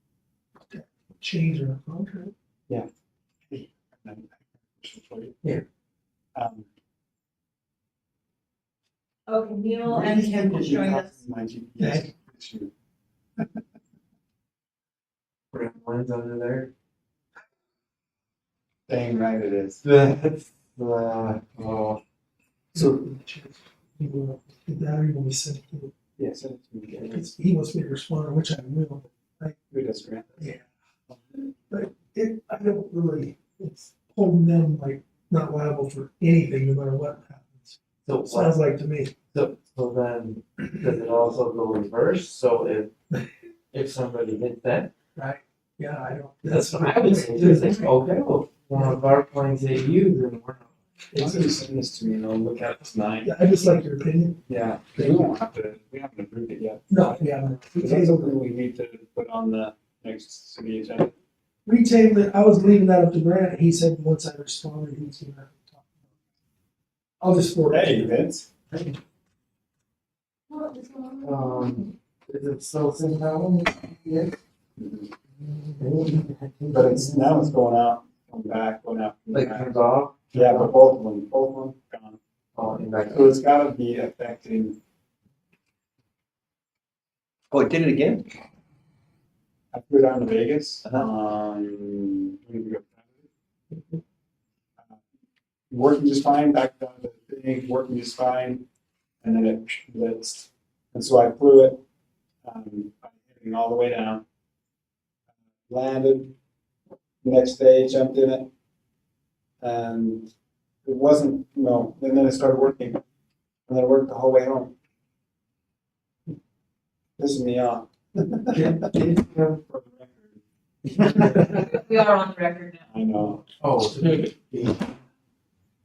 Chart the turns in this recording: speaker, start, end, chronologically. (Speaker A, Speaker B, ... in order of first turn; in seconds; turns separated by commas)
Speaker A: 0.7-2.3, Speaker B: 3.5-5.4, Speaker B: 6.3-6.7, Speaker C: 9.3-11.2, Speaker B: 9.8-12.7, Speaker A: 11.8-12.1, Speaker D: 15.5-16.7, Speaker B: 18.9-19.8, Speaker D: 19.8-22.0, Speaker A: 22.7-25.9, Speaker B: 26.2-27.3, Speaker A: 27.0-29.5, Speaker B: 29.7-30.4, Speaker A: 30.4-30.6, Speaker A: 31.7-39.1, Speaker D: 38.0-38.6, Speaker D: 39.3-42.9, Speaker D: 43.7-44.9, Speaker A: 45.1-47.8, Speaker D: 46.5-50.7, Speaker A: 51.1-51.6, Speaker B: 51.1-53.3, Speaker A: 53.2-54.4, Speaker B: 54.5-61.1, Speaker A: 54.9-55.3, Speaker A: 56.9-58.3, Speaker A: 61.6-66.0, Speaker A: 67.2-68.1, Speaker B: 67.7-68.5, Speaker C: 70.5-71.9, Speaker D: 71.2-74.3, Speaker B: 74.8-75.1, Speaker D: 75.8-77.5, Speaker B: 76.7-79.8, Speaker D: 79.3-80.7, Speaker B: 80.3-82.2, Speaker D: 82.5-83.3, Speaker B: 83.1-84.8, Speaker B: 89.7-93.2, Speaker B: 95.7-98.7, Speaker B: 99.2-101.8, Speaker B: 102.4-104.2, Speaker B: 105.7-106.3, Speaker B: 107.2-108.5, Speaker B: 109.6-110.3, Speaker B: 110.8-113.0, Speaker B: 113.7-114.7, Speaker B: 117.2-118.8, Speaker D: 118.5-119.6, Speaker B: 119.5-120.3, Speaker B: 120.9-121.5, Speaker D: 120.9-121.4, Speaker C: 121.3-122.9, Speaker B: 122.9-123.4, Speaker D: 123.6-124.3